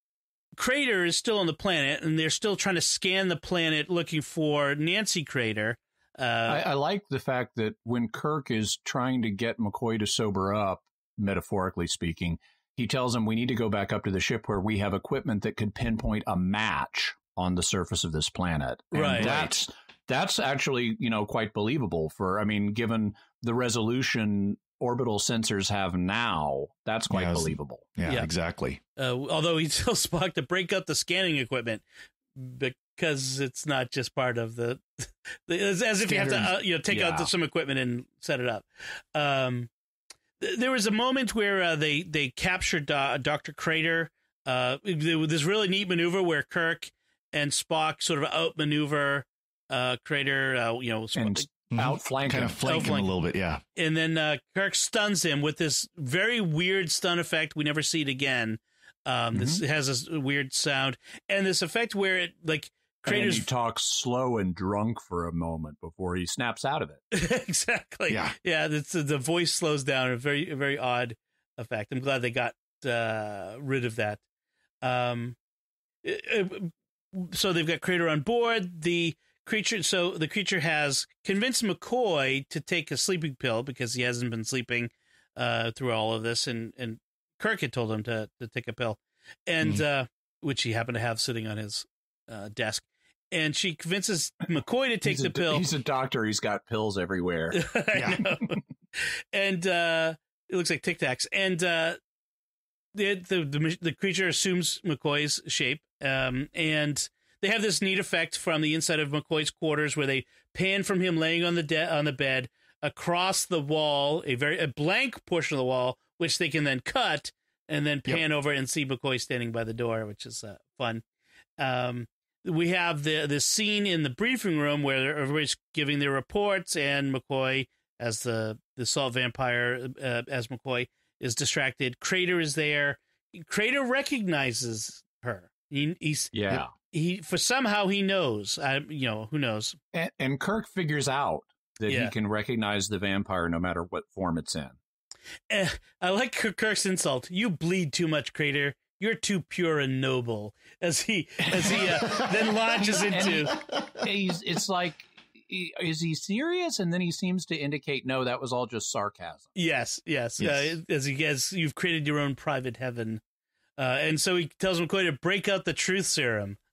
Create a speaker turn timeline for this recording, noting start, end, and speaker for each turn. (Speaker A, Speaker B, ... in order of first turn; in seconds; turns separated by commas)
Speaker A: 0.6-6.6, Speaker B: 6.5-27.9, Speaker A: 18.9-19.4, Speaker C: 19.0-19.5, Speaker C: 27.1-28.8, Speaker A: 29.0-31.8, Speaker A: 32.4-39.7, Speaker C: 36.0-36.5, Speaker B: 36.9-37.3, Speaker A: 40.4-51.5, Speaker B: 51.2-52.6, Speaker C: 51.7-53.6, Speaker A: 52.6-53.1, Speaker A: 53.8-63.5, Speaker B: 59.3-59.6, Speaker B: 63.0-67.0, Speaker A: 67.1-74.2, Speaker C: 68.1-68.3, Speaker A: 74.8-75.4, Speaker A: 76.0-95.7, Speaker B: 95.0-97.6, Speaker A: 97.5-102.0, Speaker C: 97.9-98.2, Speaker A: 103.0-121.0, Speaker A: 121.6-139.8, Speaker B: 136.3-136.7, Speaker B: 139.9-144.8, Speaker A: 141.9-142.1, Speaker A: 145.5-153.6, Speaker B: 151.5-152.2, Speaker C: 151.7-154.0, Speaker B: 152.9-159.5, Speaker A: 159.6-163.2, Speaker C: 160.4-160.8, Speaker A: 163.8-166.6